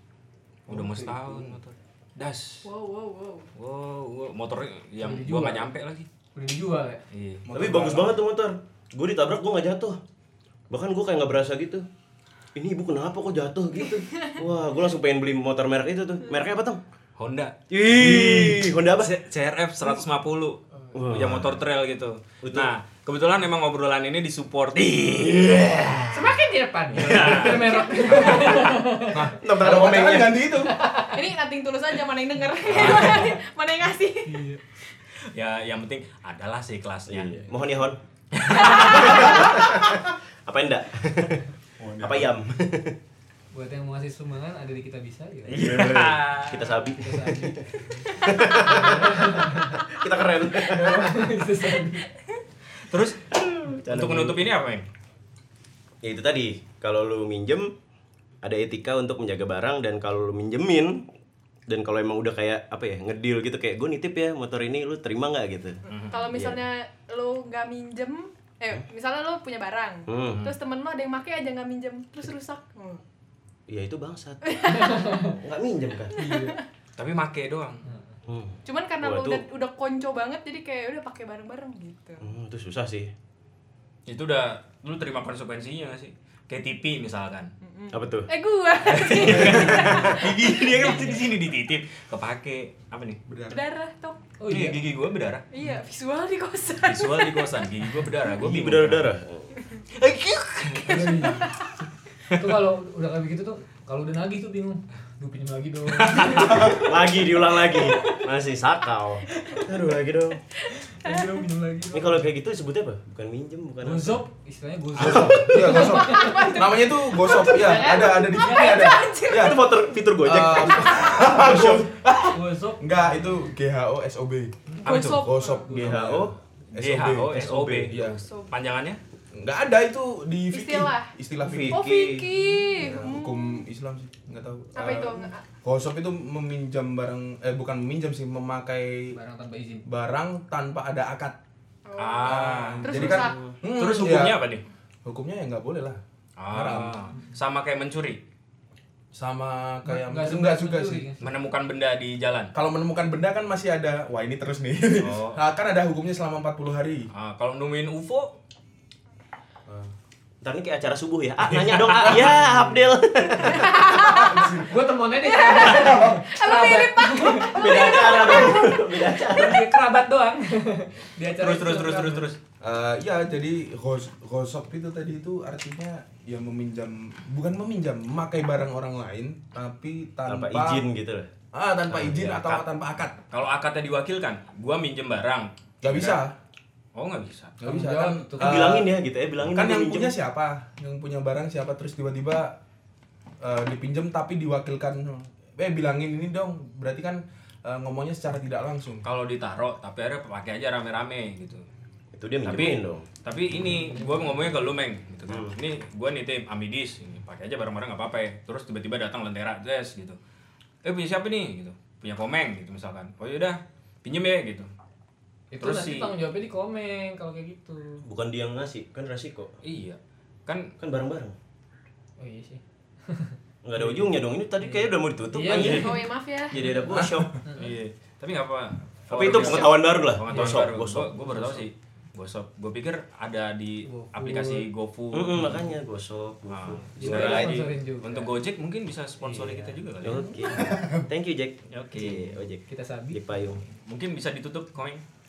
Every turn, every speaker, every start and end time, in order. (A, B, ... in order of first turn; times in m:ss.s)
0:00.7-0:01.4 A
0:00.7-0:02.7 B
0:02.6-0:03.5 C
0:03.6-0:06.1 B
0:05.0-0:05.7 D
0:06.3-0:07.0 D
0:07.1-0:07.6 B
0:07.4-0:08.2 A
0:07.5-0:10.0 E
0:10.7-0:11.8 E
0:12.5-0:16.8 E
0:14.0-0:14.4 C
0:17.2-0:26.4 B
0:17.7-0:19.1 E
0:20.9-0:21.6 E
0:22.4-0:22.7 E
0:26.1-0:29.3 D
0:26.9-0:27.8 B
0:27.1-0:27.4 E
0:27.4-0:28.6 C
0:28.4-0:30.7 A
0:28.4-0:28.8 E
0:29.4-0:30.4 E
0:30.7-0:31.2 D
0:31.0-0:34.4 C
0:32.6-0:33.3 B
0:34.2-0:34.6 D
0:35.2-0:37.4 B
0:37.1-0:38.0 E
0:38.3-0:39.3 B
0:38.5-0:39.8 C
0:38.8-0:41.5 E
0:41.8-0:42.1 B
0:41.8-0:42.2 A
0:42.0-0:43.0 E
0:43.5-0:45.6 D
0:45.5-0:46.8 B
0:45.5-0:49.3 E
0:47.0-0:49.9 D
0:49.8-0:51.3 E
0:50.5-0:52.1 D
0:52.9-0:53.2 B
0:53.3-0:54.4 E
0:53.8-0:54.9 B
0:56.0-0:57.7 E
0:58.4-1:01.0 E
1:01.7-1:06.6 E
1:05.9-1:06.3 B
1:05.9-1:13.0 C
1:10.1-1:10.4 E
1:10.3-1:10.5 B
1:13.7-1:14.6 E
1:14.4-1:15.3 C
1:14.8-1:15.3 D
1:15.2-1:16.1 E
1:16.1-1:16.6 C
1:16.2-1:16.6 D
1:17.0-1:17.8 B
1:17.8-1:18.2 D
1:18.3-1:19.4 E
1:18.6-1:22.3 C
1:22.2-1:23.1 E
1:24.0-1:27.5 B
1:27.6-1:31.2 C
1:27.9-1:28.3 E
1:28.8-1:33.2 B
1:29.3-1:30.3 E
1:33.2-1:33.6 A
1:33.5-1:34.3 C
1:34.4-1:34.9 D
1:34.5-1:35.4 B
1:35.5-1:37.8 C
1:36.8-1:39.1 B
1:38.4-1:39.5 E
1:39.6-1:39.8 C
1:40.0-1:41.1 B
1:40.8-1:41.5 D
1:40.8-1:41.7 C
1:42.3-1:46.8 D
1:46.0-1:46.8 B
1:46.5-1:50.4 E
1:47.6-1:48.2 D
1:50.6-1:51.5 C
1:50.8-1:52.3 D
1:51.9-1:54.2 E
1:53.8-1:56.6 D
1:55.0-1:55.7 E
1:55.0-1:59.6 A
1:55.6-1:59.9 C
1:57.3-1:58.9 D
1:59.3-2:01.9 E
2:00.2-2:08.1 A
2:00.7-2:01.2 C
2:02.3-2:03.4 D
2:04.8-2:05.2 B
2:04.8-2:05.8 C
2:05.7-2:06.2 D
2:05.7-2:06.3 E
2:06.8-2:09.0 B
2:07.3-2:07.9 E
2:08.1-2:08.5 C
2:09.4-2:11.8 A
2:10.5-2:11.1 C
2:11.4-2:12.3 E
2:11.7-2:13.6 C
2:12.8-2:19.1 A
2:14.8-2:15.4 C
2:19.1-2:19.8 D
2:19.8-2:21.4 A
2:21.8-2:23.4 C
2:22.0-2:24.6 B
2:22.2-2:24.4 A
2:23.2-2:23.6 E
2:25.0-2:26.0 A
2:26.4-2:28.2 B
2:26.5-2:27.1 A
2:29.1-2:31.0 A
2:29.8-2:31.2 D
2:31.2-2:32.5 B
2:32.5-2:37.1 A
2:35.0-2:35.4 B
2:37.1-2:38.3 B
2:39.6-2:39.9 A
2:40.4-2:43.9 E
2:41.5-2:42.3 B
2:43.5-2:44.6 C
2:44.2-2:44.6 A
2:44.3-2:48.5 D
2:45.2-2:49.0 C
2:45.6-2:46.2 A
2:47.5-2:49.7 E
2:49.3-2:52.3 D
2:51.2-2:52.4 B
2:52.6-3:00.8 A
3:00.3-3:01.3 E
3:01.5-3:03.2 A
3:01.9-3:02.4 B
3:02.3-3:02.6 E
3:03.3-3:06.2 B
3:05.8-3:06.3 A
3:06.9-3:07.6 B
3:07.6-3:08.9 A
3:07.6-3:08.8 D
3:08.4-3:10.2 E
3:09.4-3:12.5 A
3:13.4-3:19.0 A
3:19.0-3:21.6 B
3:22.1-3:23.0 E
3:22.4-3:30.2 B
3:23.5-3:24.7 D
3:25.3-3:25.5 E
3:30.8-3:34.7 B
3:35.5-3:38.0 D
3:35.6-3:36.1 B
3:38.0-3:39.5 E
3:39.6-3:40.7 B
3:40.8-3:41.3 E
3:42.2-3:43.4 D
3:43.6-3:47.3 E
3:44.6-3:46.0 D
3:45.5-3:46.6 C
3:46.9-3:47.3 A
3:47.5-3:55.7 B
3:49.1-3:51.6 E
3:49.3-3:49.9 C
3:50.3-3:50.7 D
3:53.8-3:54.7 D
3:55.1-3:57.7 E
3:56.5-4:00.3 B
3:57.0-3:58.3 D
3:59.2-4:00.4 D
4:00.0-4:03.6 E
4:00.5-4:01.1 A
4:01.7-4:02.4 B
4:02.7-4:03.2 D
4:03.8-4:05.0 B